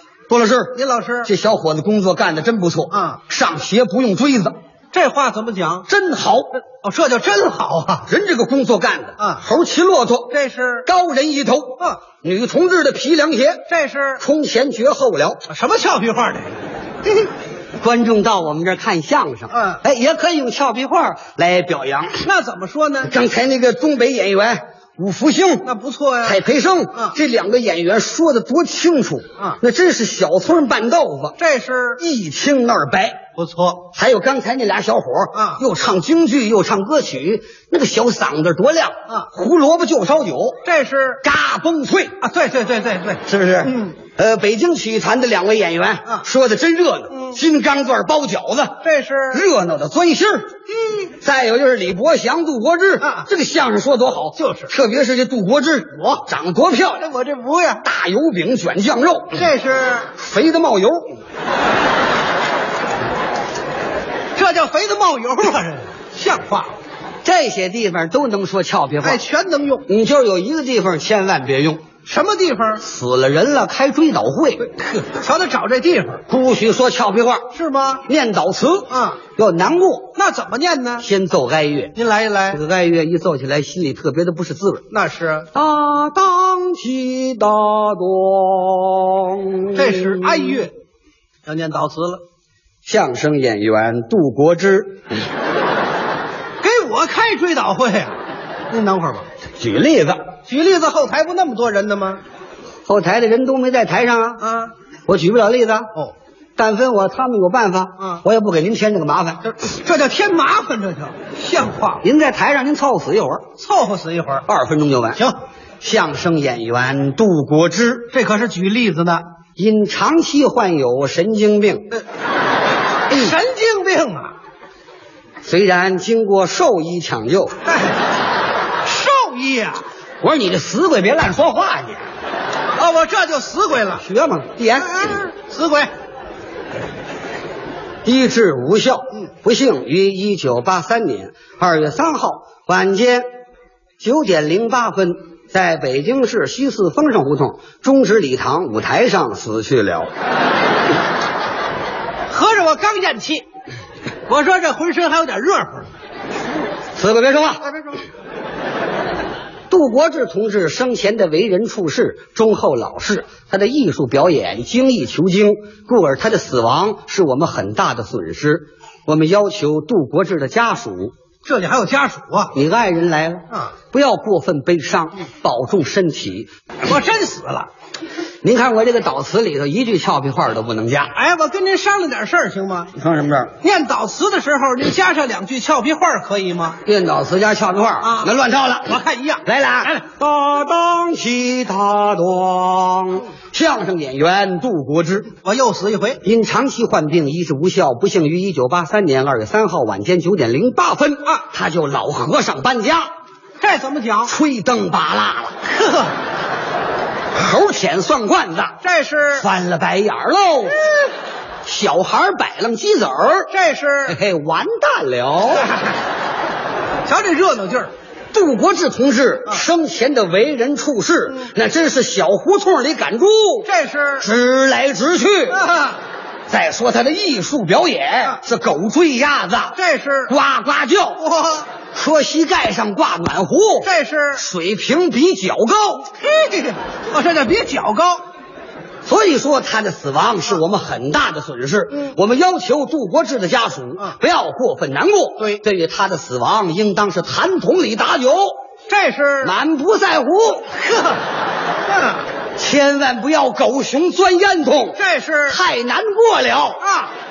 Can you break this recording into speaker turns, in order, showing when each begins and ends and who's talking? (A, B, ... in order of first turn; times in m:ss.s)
0:00.3-0:04.6 A
0:00.8-0:01.2 B
0:04.9-0:05.8 B
0:05.9-0:06.7 A
0:06.8-0:08.0 B
0:08.0-0:15.5 A
0:10.3-0:10.8 B
0:13.7-0:14.2 B
0:15.5-0:16.4 B
0:17.8-0:22.3 A
0:22.3-0:23.0 B
0:23.0-0:25.7 A
0:25.6-0:26.2 B
0:26.2-0:31.4 A
0:31.4-0:31.9 B
0:32.0-0:33.3 A
0:33.4-0:33.8 B
0:33.8-0:40.7 A
0:40.6-0:41.1 B
0:41.2-0:42.2 A
0:42.2-0:43.2 B
0:43.2-0:57.1 A
0:48.8-0:49.4 B
0:54.4-0:54.7 B
0:57.0-0:57.7 B
0:57.8-0:59.5 A
0:59.4-1:00.1 B
1:00.1-1:01.2 A
1:04.4-1:06.7 B
1:07.2-1:09.2 A
1:09.0-1:09.8 B
1:09.9-1:11.9 A
1:12.1-1:12.8 B
1:12.8-1:14.7 A
1:14.7-1:16.2 B
1:16.2-1:20.2 A
1:17.5-1:18.0 B
1:20.2-1:21.0 B
1:21.0-1:22.0 A
1:22.0-1:22.6 B
1:22.5-1:24.9 A
1:24.9-1:25.5 B
1:25.5-1:30.7 A
1:29.8-1:30.7 B
1:31.5-1:32.2 B
1:32.8-1:35.0 A
1:36.6-1:38.1 B
1:38.7-1:39.2 B
1:39.6-1:40.3 A
1:40.5-1:42.2 B
1:42.9-1:44.5 A
1:45.1-1:45.9 A
1:46.6-1:49.5 A
1:49.5-1:52.0 B
1:52.0-1:53.5 A
1:53.6-1:54.4 B
1:54.4-1:55.2 A
1:55.8-1:58.2 A
1:58.2-1:59.2 B
1:59.6-2:01.9 A
2:03.1-2:04.2 B
2:05.4-2:07.6 A
2:08.9-2:09.7 B
2:10.2-2:12.1 A
2:12.8-2:14.0 B
2:13.9-2:15.2 A
2:14.9-2:15.8 B
2:18.0-2:23.3 A
2:24.0-2:30.1 A
2:32.3-2:33.3 B
2:34.3-2:35.8 B
2:37.0-2:37.7 A
2:39.7-2:51.1 A
2:51.5-2:52.5 B
2:52.5-2:56.5 A
2:56.8-2:57.6 B
2:58.4-3:01.2 A
3:01.2-3:02.9 B
3:02.9-3:03.6 A
3:03.6-3:06.7 B
3:06.8-3:15.4 A
3:08.9-3:09.4 B
3:15.4-3:16.1 B
3:16.2-3:23.1 A
3:23.6-3:24.3 B
3:24.3-3:25.7 A
3:27.3-3:28.8 A
3:28.8-3:29.4 B
3:29.4-3:30.9 A
3:31.6-3:33.5 A
3:33.5-3:34.1 B
3:34.1-3:35.7 A
3:37.1-3:37.9 B
3:38.3-3:45.7 A
3:43.7-3:44.2 B
3:45.5-3:46.0 B
3:46.5-3:56.2 A
3:49.8-3:50.3 B
3:51.2-3:51.6 B
3:53.8-3:54.4 B
3:56.2-3:58.2 B
3:59.0-4:08.6 A
4:08.9-4:09.5 B
4:09.4-4:10.7 A
4:12.6-4:16.8 A
4:15.0-4:15.5 B